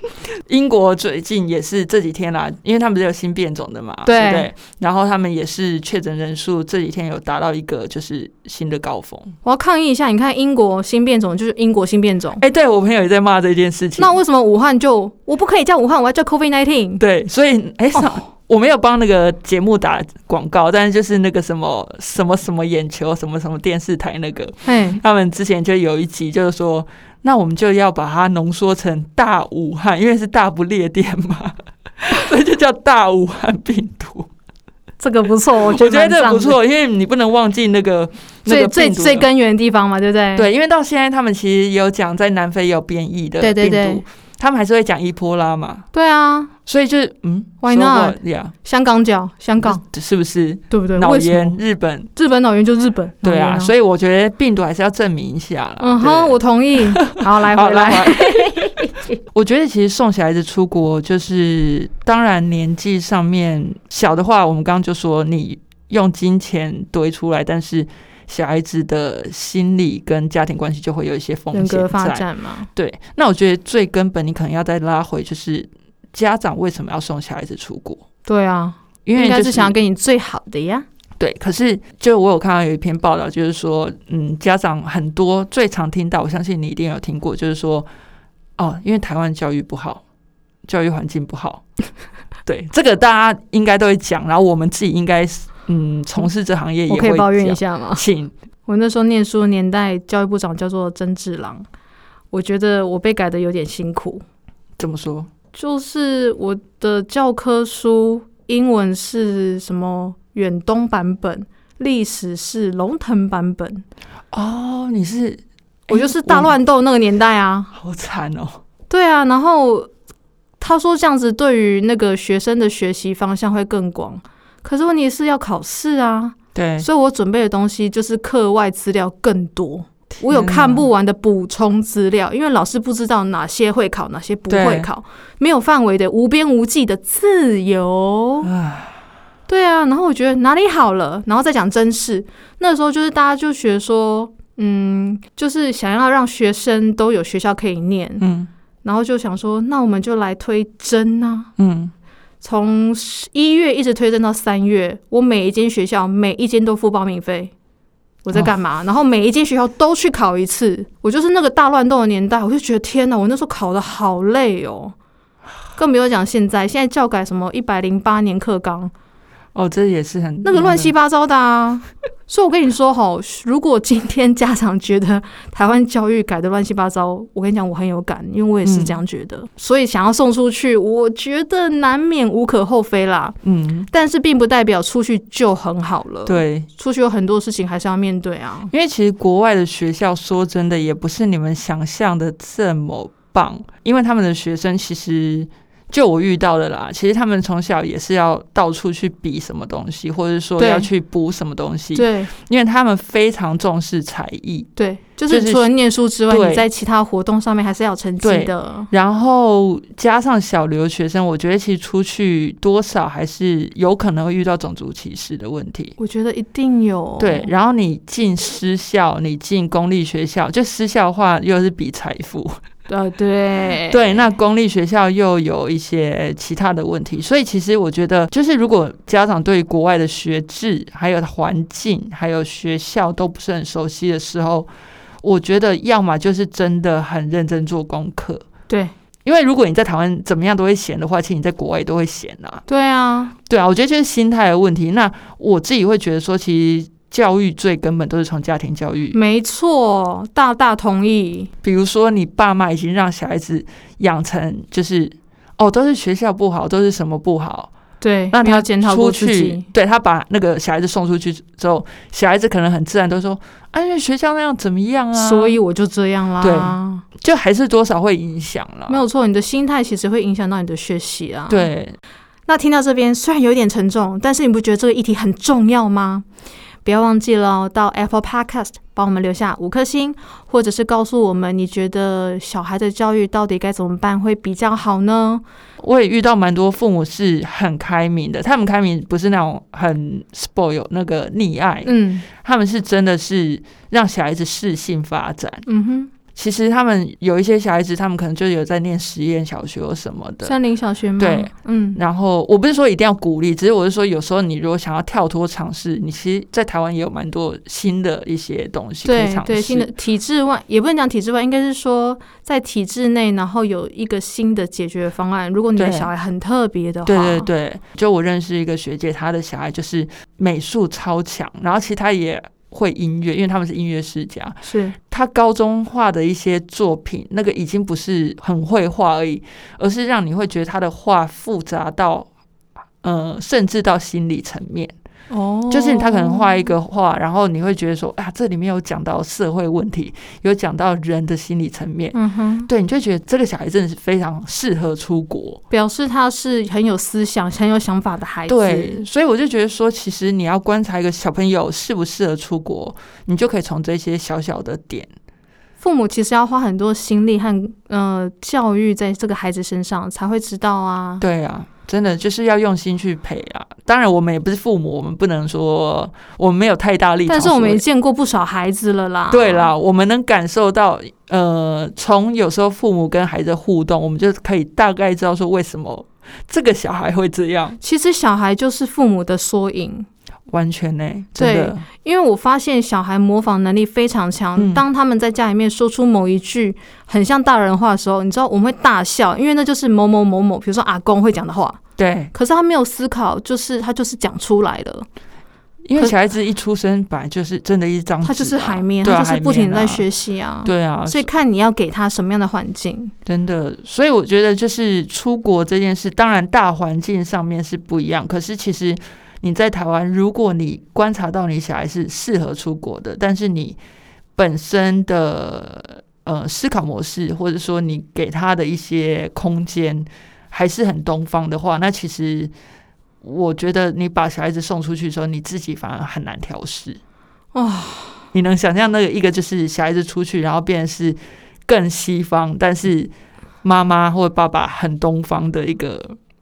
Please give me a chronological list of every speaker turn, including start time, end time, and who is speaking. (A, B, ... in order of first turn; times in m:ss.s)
0:00.3-0:09.3 A
0:04.0-0:04.5 B
0:09.4-0:12.4 B
0:12.4-0:14.2 A
0:14.0-0:17.0 B
0:17.0-0:34.3 A
0:24.7-0:25.0 B
0:35.0-0:36.6 B
0:35.6-0:39.3 A
0:38.5-0:40.5 B
0:40.4-0:45.9 A
0:43.4-0:44.0 B
0:45.9-0:46.5 B
0:46.7-0:48.5 A
0:47.6-0:49.8 B
0:49.6-0:52.1 A
0:50.7-0:51.6 B
0:52.2-0:53.7 B
0:53.2-0:58.7 A
0:55.8-0:59.2 B
0:59.3-1:18.0 A
1:11.5-1:12.7 B
1:18.3-1:20.9 B
1:19.1-1:19.8 A
1:21.2-1:27.9 A
1:28.6-1:30.0 A
1:30.7-1:31.6 A
1:32.5-1:38.3 A
1:36.9-1:38.0 B
1:38.7-1:41.7 B
1:42.3-1:44.2 B
1:44.8-1:45.3 A
1:45.5-1:53.8 B
1:54.3-1:56.5 A
1:55.9-1:57.7 B
1:57.7-1:58.6 A
1:58.9-1:59.9 B
2:00.6-2:18.5 B
2:06.6-2:06.9 A
2:10.2-2:10.9 A
2:14.5-2:14.9 A
2:18.4-2:19.0 A
2:19.5-2:28.2 B
2:28.2-2:28.5 A
2:28.8-2:31.5 B
2:31.6-2:31.9 A
2:32.4-2:37.5 B
2:38.2-2:45.0 B
2:45.8-2:48.9 B
2:49.5-2:50.9 A
2:50.4-3:03.4 B
2:58.6-2:59.0 A
3:03.4-3:03.9 A
3:03.9-3:08.7 B
3:06.3-3:06.7 A
3:08.7-3:24.7 A
3:20.6-3:20.9 B
3:22.0-3:22.3 B
3:24.8-3:28.9 B
3:25.3-3:25.7 A
3:26.3-3:26.7 A
3:28.2-3:36.0 A
3:36.0-3:37.5 B
3:37.2-3:42.6 A
3:42.9-3:44.2 B
3:43.9-3:54.7 A
3:55.2-3:58.4 A
3:59.2-4:02.6 A
4:02.7-4:03.3 B
4:03.5-4:09.2 A
4:09.1-4:11.5 B
4:11.6-4:17.7 A
4:18.0-4:19.7 B
4:18.3-4:25.6 A
4:25.2-4:27.0 B
4:26.4-4:29.0 A
4:28.9-4:31.7 B
4:31.5-4:32.0 A
4:32.5-4:36.2 B
4:36.8-4:45.4 B
4:45.8-4:55.6 A
4:51.8-4:52.3 B
4:55.7-4:56.1 B
4:56.4-5:00.6 A
5:00.4-5:02.0 B
5:01.2-5:09.9 A
5:09.0-5:17.5 B
5:15.8-5:16.1 A
5:17.1-5:32.3 A
5:24.6-5:25.0 B
5:33.0-5:34.9 A
5:35.3-5:36.7 B
5:35.7-5:42.2 A
5:42.1-5:42.7 B
5:42.7-5:45.6 A
5:45.7-5:49.0 B
5:48.5-5:55.1 A
5:55.8-6:01.2 B
6:01.2-6:07.8 A
6:07.3-6:09.7 B
6:09.3-6:17.8 A
6:17.8-6:20.1 B
6:20.5-6:21.9 A
6:21.4-6:31.8 B
6:24.6-6:24.8 A
6:32.0-6:32.3 A
6:32.3-6:35.1 B
6:35.9-6:40.0 A
6:38.2-6:43.1 B
6:40.6-6:41.3 A
6:43.3-6:53.8 A
6:54.4-7:02.5 A
7:03.2-7:07.0 A
7:07.5-7:08.2 B
7:08.3-7:13.1 A
7:13.6-7:16.2 A